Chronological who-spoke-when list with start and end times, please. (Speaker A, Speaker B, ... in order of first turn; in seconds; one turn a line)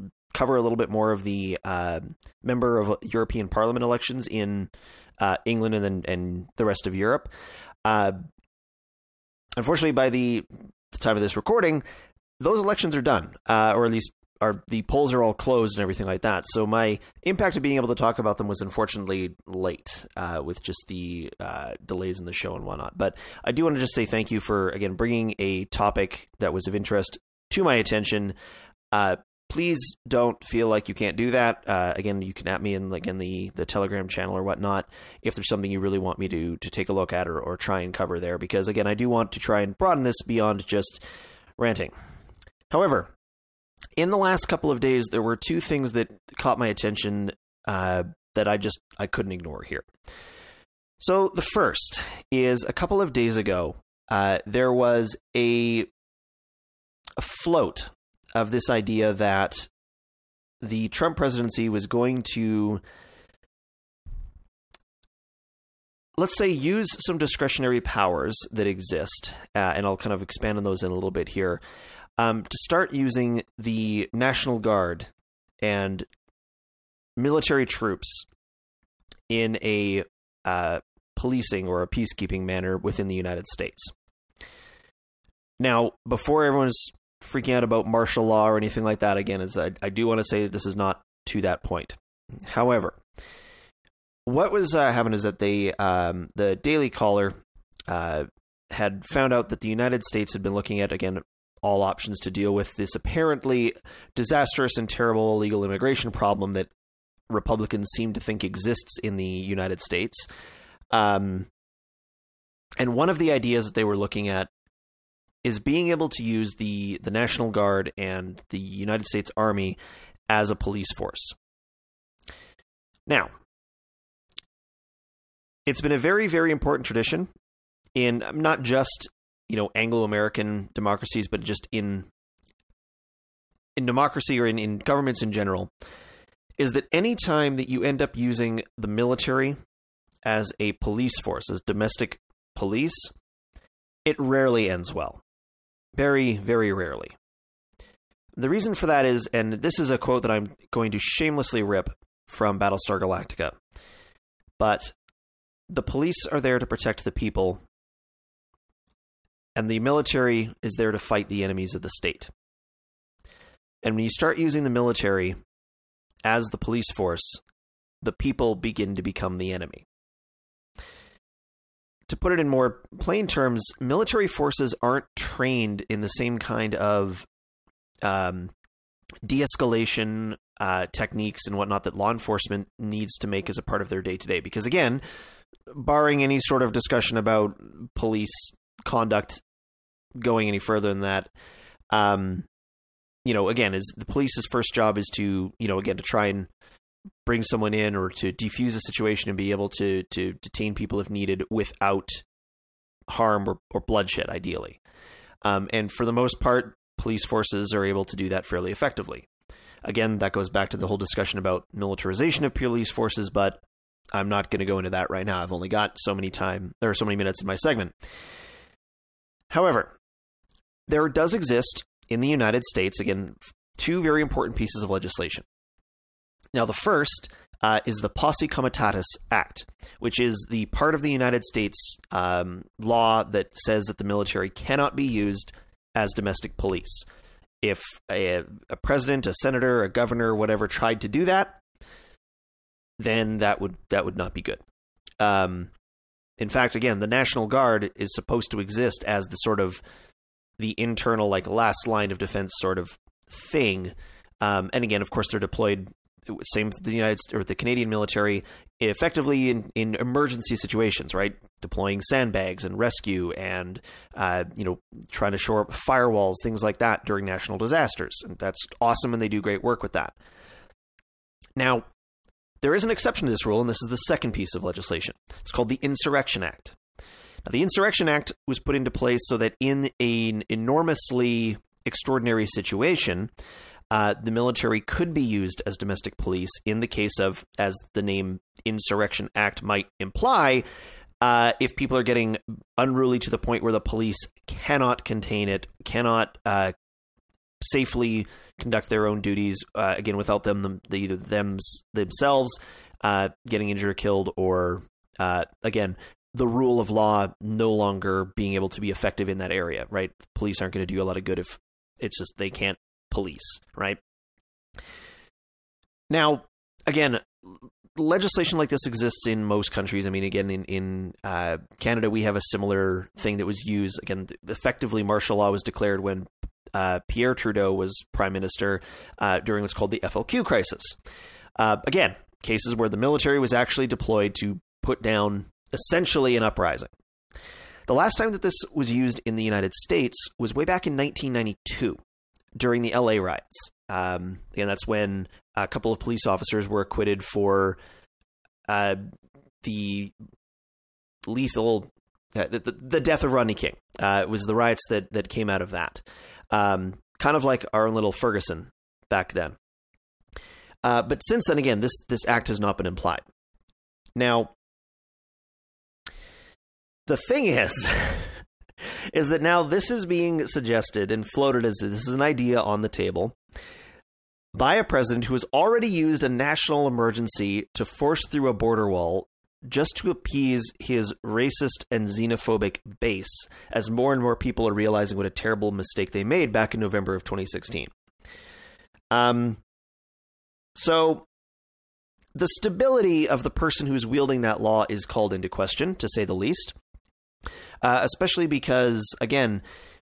Speaker A: 0.3-7.3
Speaker A: 7.8-8.2
Speaker A: 9.6-11.8
Speaker A: 12.4-28.4
Speaker A: 28.9-41.0
Speaker A: 41.6-41.9
Speaker A: 42.7-43.1
Speaker A: 44.0-49.9
Speaker A: 51.0-55.9
Speaker A: 57.2-59.7
Speaker A: 60.6-62.8
Speaker A: 66.2-71.6
Speaker A: 72.2-75.1
Speaker A: 75.6-76.1
Speaker A: 77.2-78.3
Speaker A: 79.3-83.9
Speaker A: 85.6-93.0
Speaker A: 94.3-97.4
Speaker A: 97.9-106.7
Speaker A: 107.3-110.3
Speaker A: 110.9-111.5
Speaker A: 112.8-114.5
Speaker A: 115.4-119.8
Speaker A: 120.3-121.3
Speaker A: 125.7-127.3
Speaker A: 128.0-132.1
Speaker A: 133.8-135.7
Speaker A: 136.6-139.6
Speaker A: 140.2-143.1
Speaker A: 144.1-145.2
Speaker A: 145.9-147.1
Speaker A: 148.4-153.6
Speaker A: 154.6-154.9
Speaker A: 155.7-157.6
Speaker A: 159.6-162.3
Speaker A: 163.8-165.4
Speaker A: 166.2-167.4
Speaker A: 168.0-169.8
Speaker A: 172.1-177.3
Speaker A: 178.0-178.5
Speaker A: 179.2-185.0
Speaker A: 185.7-189.4
Speaker A: 190.2-191.3
Speaker A: 191.9-192.5
Speaker A: 193.2-196.5
Speaker A: 197.2-202.2
Speaker A: 203.1-204.8
Speaker A: 205.4-209.3
Speaker A: 209.8-213.6
Speaker A: 214.1-217.9
Speaker A: 219.5-219.9
Speaker A: 220.9-225.4
Speaker A: 226.5-237.1
Speaker A: 237.6-241.6
Speaker A: 243.0-244.6
Speaker A: 245.2-245.7
Speaker A: 246.4-249.8
Speaker A: 250.6-270.1
Speaker A: 271.6-271.9
Speaker A: 272.6-276.8
Speaker A: 277.4-283.3
Speaker A: 283.9-290.6
Speaker A: 291.2-296.7
Speaker A: 297.6-314.0
Speaker A: 316.1-331.0
Speaker A: 331.6-336.9
Speaker A: 337.9-342.0
Speaker A: 342.6-347.8
Speaker A: 348.7-349.0
Speaker A: 349.6-350.1
Speaker A: 351.2-359.6
Speaker A: 360.8-363.2
Speaker A: 364.2-364.5
Speaker A: 367.1-368.4
Speaker A: 369.1-373.4
Speaker A: 374.6-387.9
Speaker A: 389.1-389.6
Speaker A: 390.8-391.3
Speaker A: 392.4-396.8
Speaker A: 397.8-399.6